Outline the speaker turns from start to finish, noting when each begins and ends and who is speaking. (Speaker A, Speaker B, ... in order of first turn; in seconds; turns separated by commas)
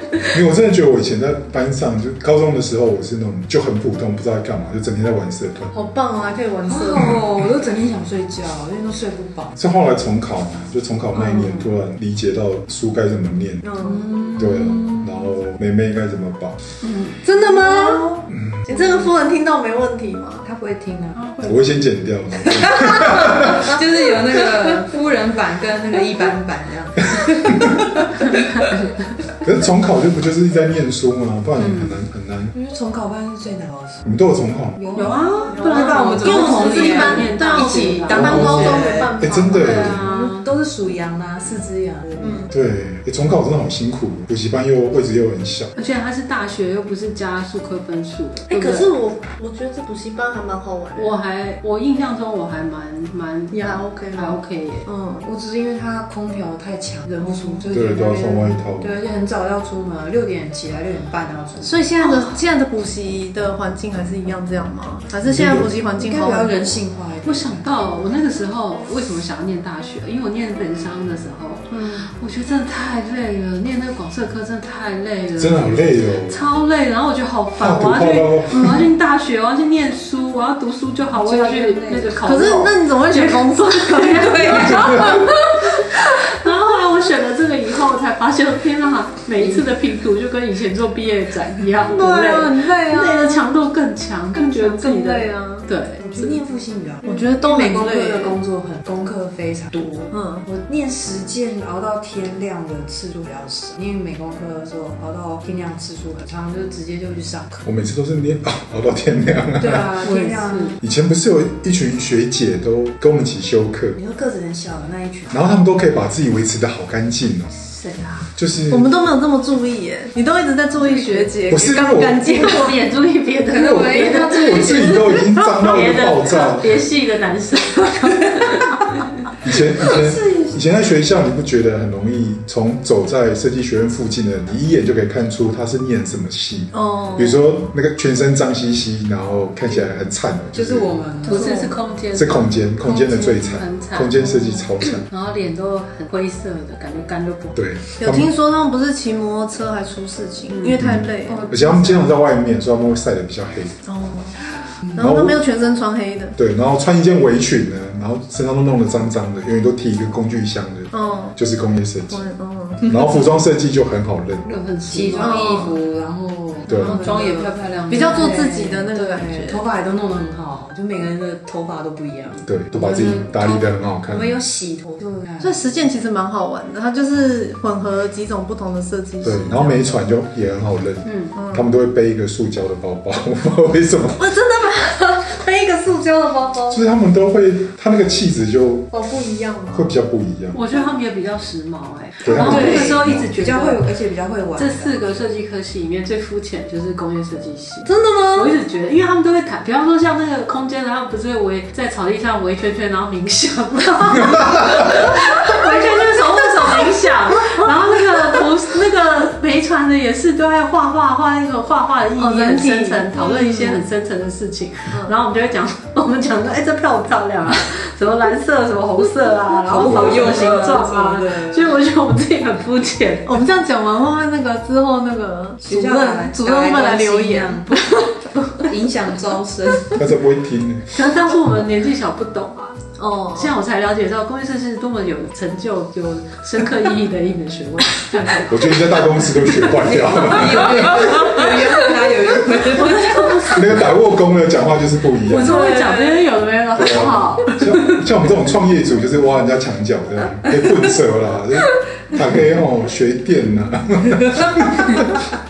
Speaker A: 0.3-5.7, Speaker B: 5.7-7.2, Speaker C: 6.7-9.6, Speaker A: 9.6-13.7, Speaker B: 11.2-11.6, Speaker B: 13.6-14.4, Speaker C: 13.8-15.3, Speaker A: 14.4-16.6, Speaker D: 16.8-17.2, Speaker B: 17.2-20.4, Speaker C: 17.3-19.1, Speaker A: 18.3-18.6, Speaker C: 20.4-21.2, Speaker D: 21.2-21.7, Speaker A: 21.4-23.7, Speaker C: 22.5-28.4, Speaker D: 28.2-29.1, Speaker A: 29.4-32.5, Speaker D: 31.6-32.0, Speaker C: 32.5-34.0, Speaker A: 34.0-34.8, Speaker C: 34.8-39.2, Speaker D: 35.0-38.7, Speaker B: 35.5-40.0, Speaker A: 38.1-40.0, Speaker D: 39.5-40.5, Speaker C: 39.8-42.5, Speaker B: 42.2-42.5, Speaker A: 42.5-45.7, Speaker D: 45.8-48.9, Speaker B: 48.5-51.1, Speaker D: 51.0-54.9, Speaker B: 53.5-55.3, Speaker C: 55.2-62.0, Speaker A: 57.7-58.9, Speaker B: 61.6-66.8, Speaker D: 62.0-62.3, Speaker A: 65.2-65.7, Speaker C: 65.8-67.9, Speaker D: 67.2-96.0, Speaker B: 71.7-72.1, Speaker A: 75.4-76.4, Speaker A: 77.6-78.8, Speaker B: 78.5-78.8, Speaker C: 81.2-82.2, Speaker B: 82.2-86.0, Speaker C: 84.1-85.3, Speaker B: 91.9-93.4, Speaker B: 94.3-96.4, Speaker C: 96.0-107.6, Speaker B: 97.0-98.4, Speaker B: 100.1-100.5, Speaker A: 107.6-110.0, Speaker C: 109.6-110.8, Speaker D: 110.0-110.8, Speaker A: 110.8-114.0, Speaker C: 114.0-115.4, Speaker A: 115.3-117.5, Speaker D: 117.5-118.3, Speaker A: 118.3-118.9, Speaker B: 118.7-122.8, Speaker C: 120.8-121.3, Speaker A: 121.5-122.5, Speaker D: 122.2-129.0, Speaker A: 123.6-126.8, Speaker C: 123.7-124.9, Speaker A: 129.4-141.0, Speaker C: 129.8-130.6, Speaker B: 136.7-137.4, Speaker C: 140.5-141.7, Speaker D: 141.3-147.6, Speaker A: 142.1-145.1, Speaker A: 147.6-148.3, Speaker B: 148.0-151.5, Speaker D: 150.5-150.8, Speaker A: 150.8-153.8, Speaker C: 151.3-152.0, Speaker B: 153.9-154.4, Speaker B: 154.9-156.4, Speaker A: 155.0-155.4, Speaker A: 156.4-162.2, Speaker B: 160.9-161.4, Speaker B: 162.1-163.2, Speaker A: 162.8-164.5, Speaker D: 164.4-165.7, Speaker C: 164.9-175.6, Speaker B: 165.2-165.8, Speaker A: 166.7-167.0, Speaker D: 166.7-168.4, Speaker B: 167.9-169.6, Speaker A: 172.4-174.4, Speaker B: 175.4-179.9, Speaker A: 179.2-184.3, Speaker D: 181.1-181.3, Speaker B: 181.3-181.7, Speaker B: 184.2-186.8, Speaker A: 186.7-188.9, Speaker B: 188.9-189.9, Speaker A: 189.7-190.6, Speaker D: 190.5-193.8, Speaker A: 192.2-193.3, Speaker C: 192.3-195.3, Speaker B: 192.5-192.8, Speaker D: 194.6-223.4, Speaker B: 197.8-198.6, Speaker A: 204.4-204.7, Speaker B: 205.4-207.7, Speaker B: 212.2-213.8, Speaker C: 219.7-221.8, Speaker B: 219.8-220.2, Speaker B: 223.3-228.7, Speaker C: 225.6-227.8, Speaker C: 228.6-230.0, Speaker A: 230.0-230.9, Speaker D: 230.9-238.8, Speaker B: 233.0-233.5, Speaker A: 238.4-241.3, Speaker C: 239.5-243.7, Speaker D: 242.6-243.8, Speaker A: 243.5-245.7, Speaker D: 245.3-247.6, Speaker C: 245.4-246.2, Speaker B: 245.6-245.8, Speaker A: 246.7-255.1, Speaker C: 254.2-255.2